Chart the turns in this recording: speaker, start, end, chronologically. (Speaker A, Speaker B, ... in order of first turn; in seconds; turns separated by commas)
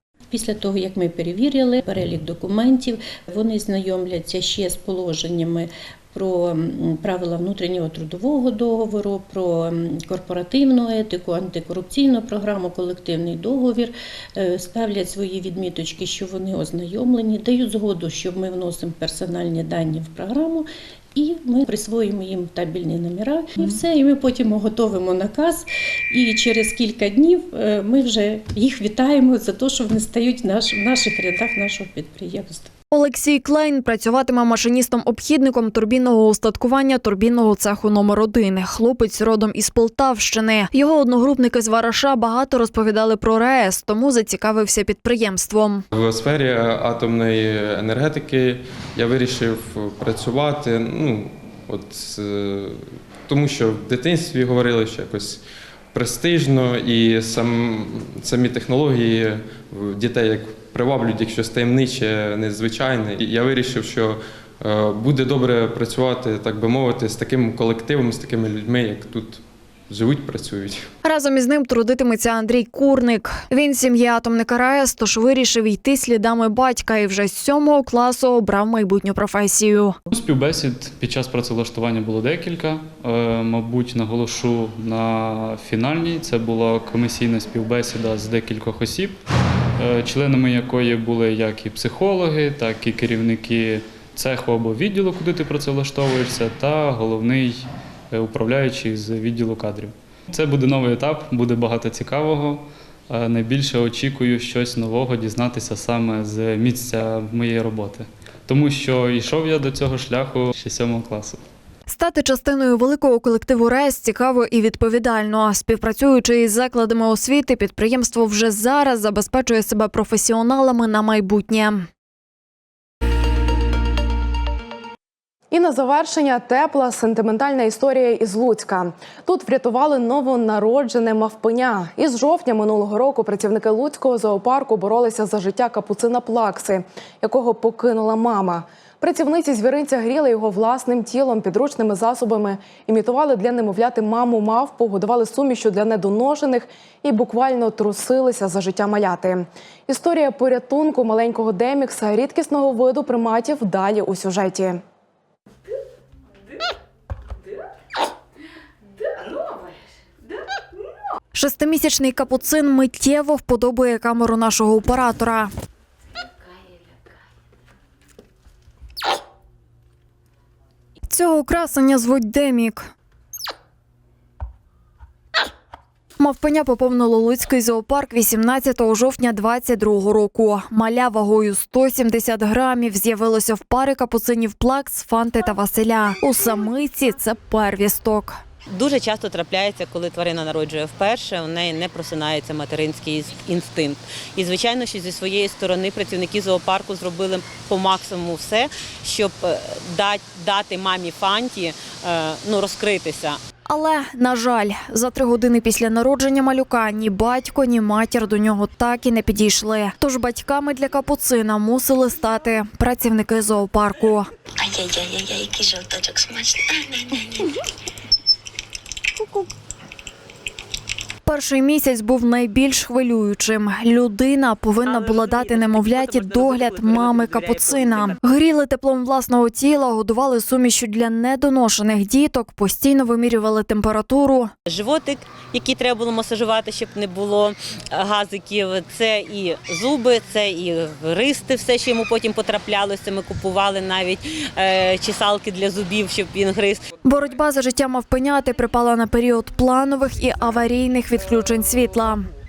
Speaker A: 0.3-32.7, Speaker B: 32.9-45.9, Speaker C: 45.9-70.9, Speaker B: 71.0-80.0, Speaker D: 80.1-89.2, Speaker D: 89.8-111.4, Speaker B: 111.9-121.9, Speaker E: 125.5-154.8, Speaker B: 161.3-165.5, Speaker B: 171.1-172.9, Speaker B: 176.2-188.4, Speaker F: 188.7-203.4, Speaker B: 203.7-214.3, Speaker G: 214.6-217.5, Speaker B: 219.2-219.5, Speaker B: 221.3-234.5, Speaker F: 234.7-246.8, Speaker B: 247.1-252.3